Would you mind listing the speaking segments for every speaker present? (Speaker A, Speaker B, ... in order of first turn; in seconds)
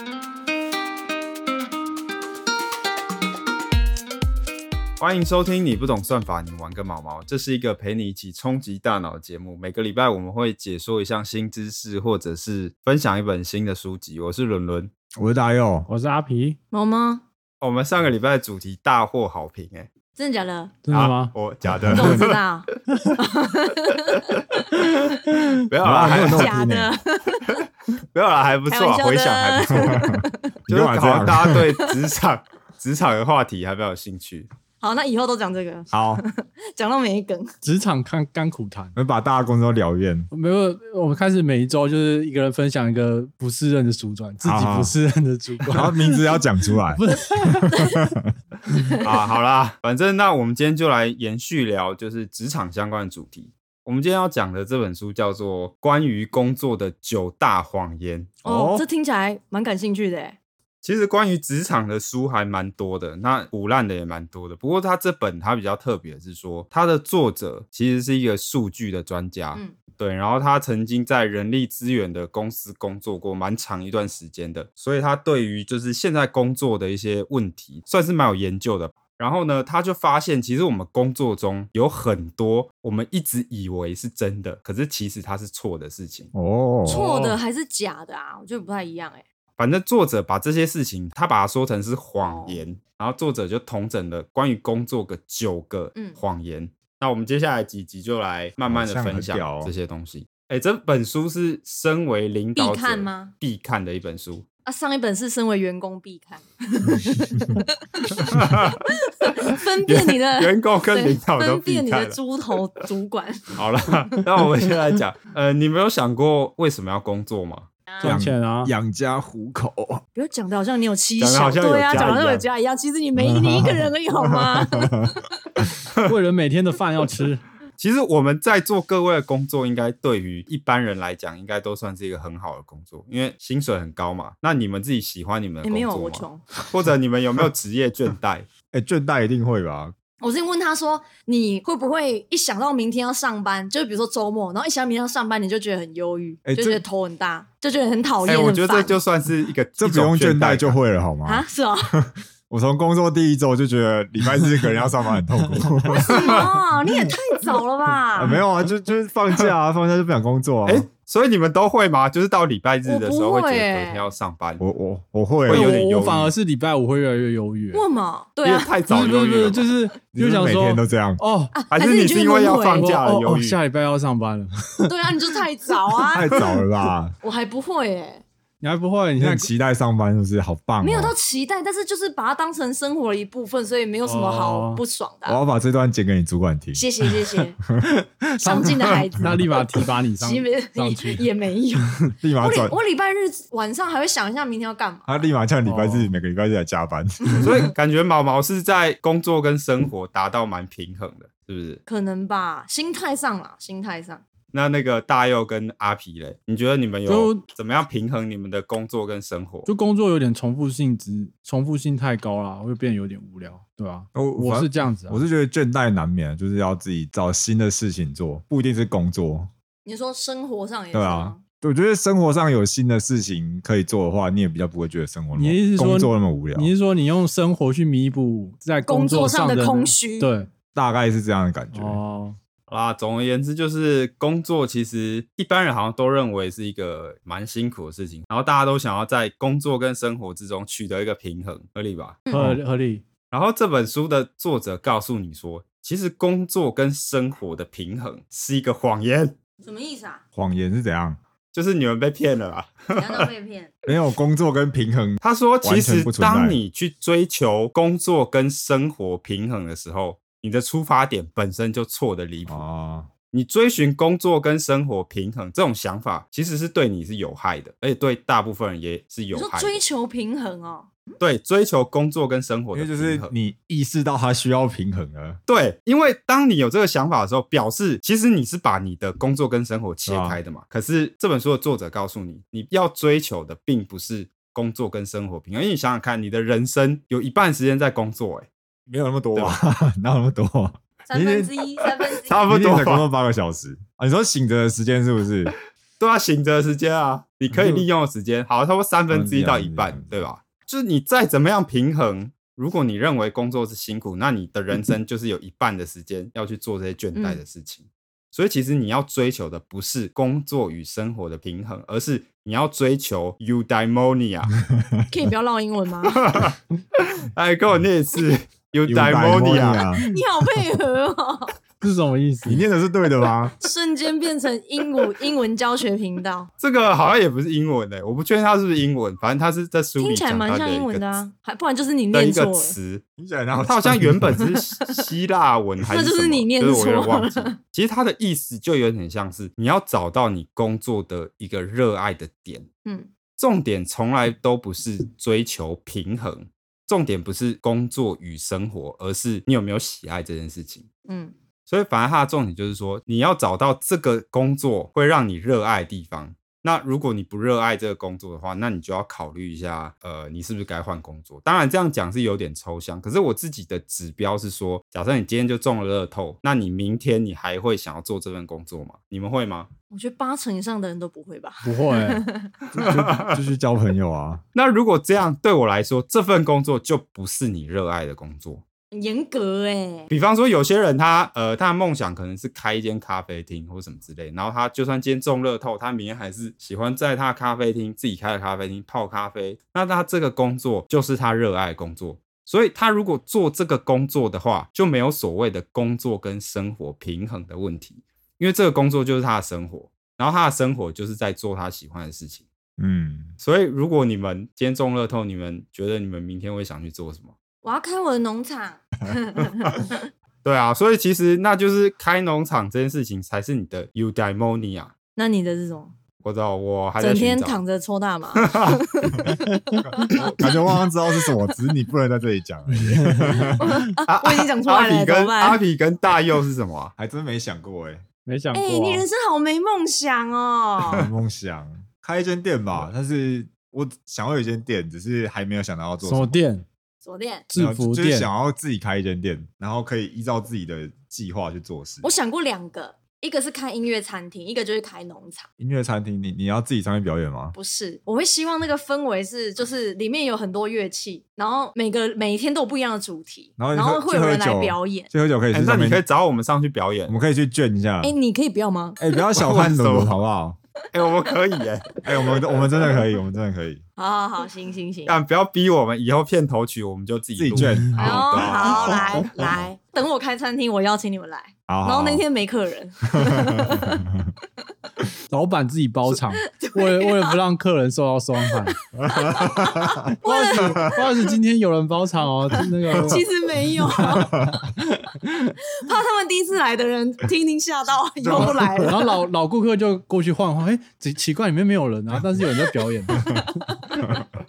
Speaker A: 5.0-14.9, 17.6-19.9, 20.9-22.4, 24.2-24.6, 25.7-26.6, 28.1-30.0, 30.7-34.5, 49.0-58.3, 60.8-86.3, 89.6-104.5, 108.1-108.8, 109.4-112.2, 113.5-117.7, 121.2-122.5, 127.8-138.5, 148.2-150.8, 156.0-156.5, 160.7-164.6, 165.5-166.3, 168.4-169.7, 171.7-173.6, 197.4-201.8, 204.5-209.7, 232.7-242.2, 243.3-249.3, 251.5-253.3, 255.2-262.6, 263.3-269.8, 271.2-273.3, 275.5-288.5, 292.2-293.1, 296.0-314.6, 316.1-319.9, 326.6-331.2, 332.1-333.0, 333.6-342.7, 343.4-350.9, 351.7-369.7, 372.8-373.4, 374.5-378.6, 380.1-402.4, 403.4-407.3, 410.4-414.9, 416.2-417.6, 418.4-418.8, 424.1-426.9, 455.5-457.2, 459.4-460.2, 460.9-462.0, 465.1-469.2
Speaker B: 15.2-15.9, 21.6-22.2, 25.8-27.0, 29.9-31.6, 35.9-36.2, 39.0-40.3, 44.4-45.0, 45.7-48.3, 58.4-58.9, 86.3-87.0, 98.7-99.7, 118.0-120.0, 121.9-122.2, 123.2-125.2, 138.7-139.9, 146.4-146.8, 149.8-156.4, 158.1-160.9, 164.6-165.8, 170.2-171.2, 176.1-177.2, 179.2-181.2, 185.3-186.8, 192.2-192.8, 195.1-197.5, 214.2-219.5, 220.9-226.7, 230.8-232.0, 242.3-242.6, 250.3-251.2, 253.9-256.6, 262.5-263.1, 272.7-275.4, 280.1-280.4, 288.9-291.5, 292.5-295.5, 297.5-297.9, 299.1-300.3, 318.9-320.1, 322.4-323.6, 333.2-334.4, 372.7-374.4, 402.8-403.3, 419.9-423.7, 427.0-428.0, 430.9-436.4, 437.6-442.1, 445.6-447.6, 453.6-456.0, 457.1-458.1, 459.0-460.6, 462.0-463.8, 467.4-469.7, 471.7-472.2, 473.2-474.2, 479.0-480.1, 484.2-484.6, 488.2-488.9
Speaker C: 15.9-16.6, 20.8-21.3, 25.1-25.4, 37.6-39.0, 40.3-47.6, 86.9-87.4, 118.0-118.7, 126.0-127.4, 165.5-167.8, 168.9-171.5, 172.8-175.4, 176.1-176.5, 178.6-179.5, 184.1-184.8, 187.8-191.3, 195.7-196.1, 207.1-207.4, 209.7-215.2, 225.3-230.5, 231.7-232.4, 242.3-243.0, 321.8-322.6, 371.6-372.2, 422.7-423.7, 428.3-429.1, 436.0-436.6, 437.5-438.3, 475.3-478.8, 480.2-483.2, 484.8-485.6, 488.3-493.3
Speaker D: 16.7-17.2, 20.2-20.8, 21.9-24.3, 26.0-27.6, 28.7-30.5, 34.8-37.5, 47.1-48.1, 48.7-49.1, 58.4-60.4, 86.9-89.2, 92.2-92.6, 96.0-96.2, 102.6-103.3, 104.7-113.6, 117.9-118.2, 120.2-125.2, 135.6-136.5, 140.2-149.0, 151.2-152.0, 155.9-158.4, 162.8-164.1, 167.7-168.8, 171.5-173.0, 174.9-176.4, 177.2-178.2, 180.8-185.4, 186.7-187.6, 188.4-189.5, 190.2-195.3, 201.9-204.2, 219.8-221.4, 228.8-230.3, 249.6-250.2, 252.9-253.7, 269.3-271.0, 291.1-292.4, 307.1-307.4, 315.1-316.3, 320.0-321.6, 323.6-326.5, 330.0-332.8, 335.8-337.6, 342.9-343.1, 351.1-351.3, 369.9-372.5, 378.9-380.1, 407.6-410.1, 415.2-415.9, 417.0-420.5, 421.3-421.5, 423.6-425.6, 428.5-431.1, 437.0-437.5, 442.0-445.5, 447.5-455.1, 458.0-459.2, 464.0-465.2, 468.0-474.0, 476.5-477.4, 478.7-481.1, 482.9-484.6, 485.8-489.2